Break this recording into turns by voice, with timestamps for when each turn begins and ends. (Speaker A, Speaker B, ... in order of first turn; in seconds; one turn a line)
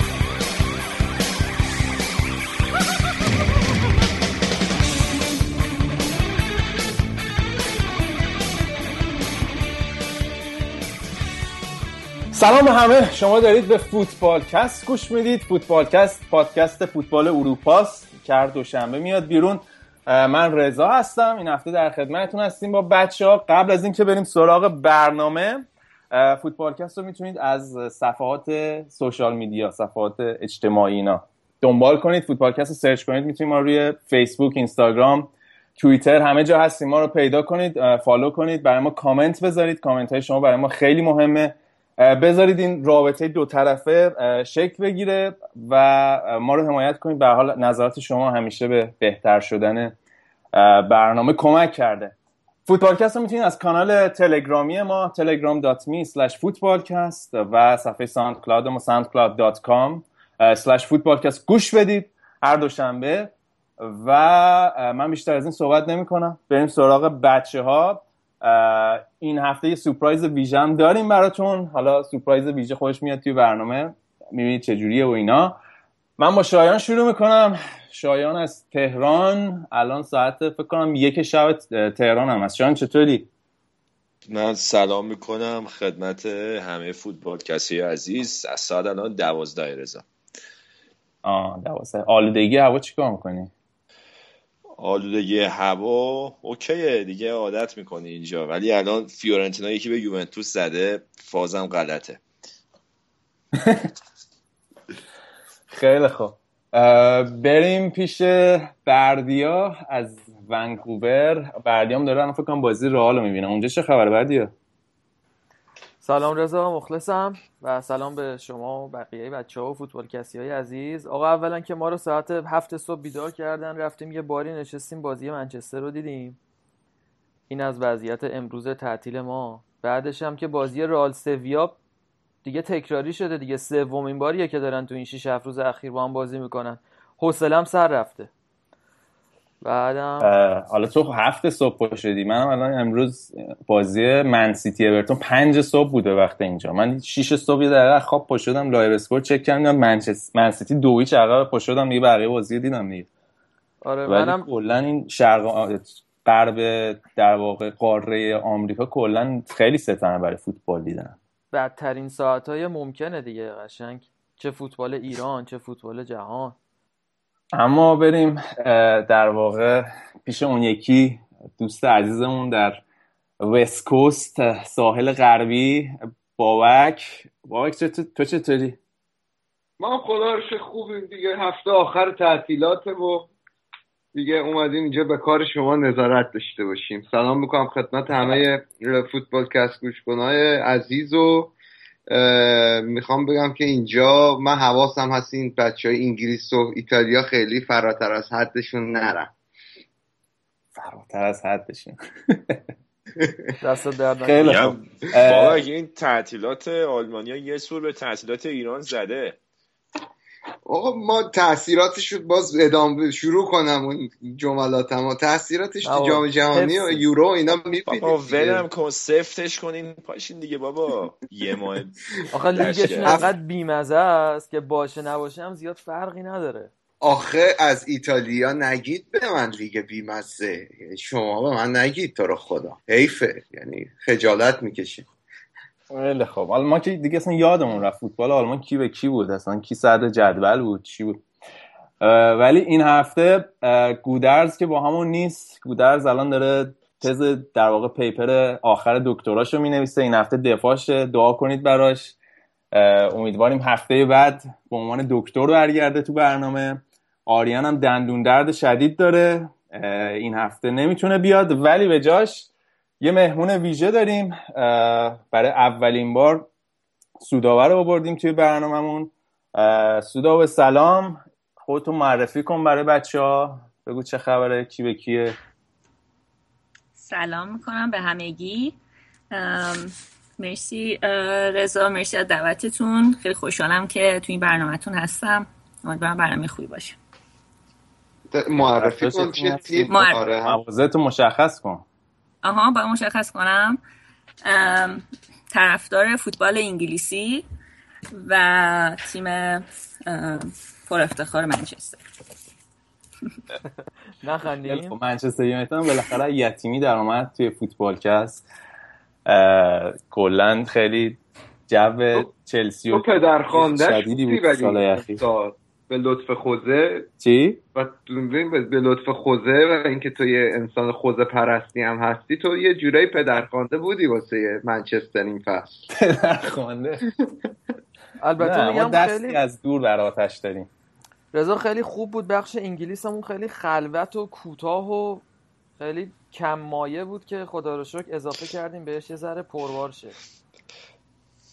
Speaker A: 12.3-49.9
Speaker A: 50.5-52.1
Speaker A: 52.7-75.6
Speaker A: 76.2-83.3
Speaker B: 84.3-90.0
Speaker A: 91.2-93.5
Speaker B: 94.8-102.2
Speaker A: 103.5-103.9
Speaker A: 105.7-114.5
Speaker C: 116.0-126.4
Speaker C: 127.5-131.8
Speaker C: 132.4-138.3
Speaker C: 139.6-140.3
Speaker A: 140.2-153.1
Speaker C: 153.8-154.5
Speaker A: 154.1-161.2
Speaker C: 161.5-166.6
Speaker A: 167.5-172.8
Speaker A: 173.4-178.8
Speaker D: 179.8-183.3
Speaker D: 184.1-191.5
Speaker D: 192.1-199.3
Speaker A: 200.8-202.6
Speaker C: 203.6-204.8
Speaker A: 204.2-205.6
Speaker B: 204.4-209.4
Speaker D: 210.7-218.6
Speaker C: 215.8-217.0
Speaker B: 217.9-222.0
Speaker C: 222.3-226.7
Speaker B: 222.5-223.3
Speaker D: 223.0-223.3
Speaker D: 227.0-235.1
Speaker A: 235.9-241.2
Speaker A: 242.0-252.1
Speaker A: 252.7-262.5
Speaker A: 263.0-266.5
Speaker A: 267.2-275.4
Speaker E: 277.0-278.8
Speaker E: 279.3-286.9
Speaker D: 288.3-290.6
Speaker A: 288.8-291.8
Speaker E: 289.9-290.2
Speaker E: 292.4-293.8
Speaker E: 294.4-297.4
Speaker E: 298.1-302.0
Speaker C: 304.2-304.9
Speaker A: 304.6-308.4
Speaker A: 309.2-315.2
Speaker D: 312.9-317.1
Speaker A: 317.2-317.6
Speaker D: 317.8-325.9
Speaker A: 325.9-327.1
Speaker C: 328.2-329.4
Speaker A: 328.4-330.7
Speaker C: 331.3-335.2
Speaker C: 335.8-340.1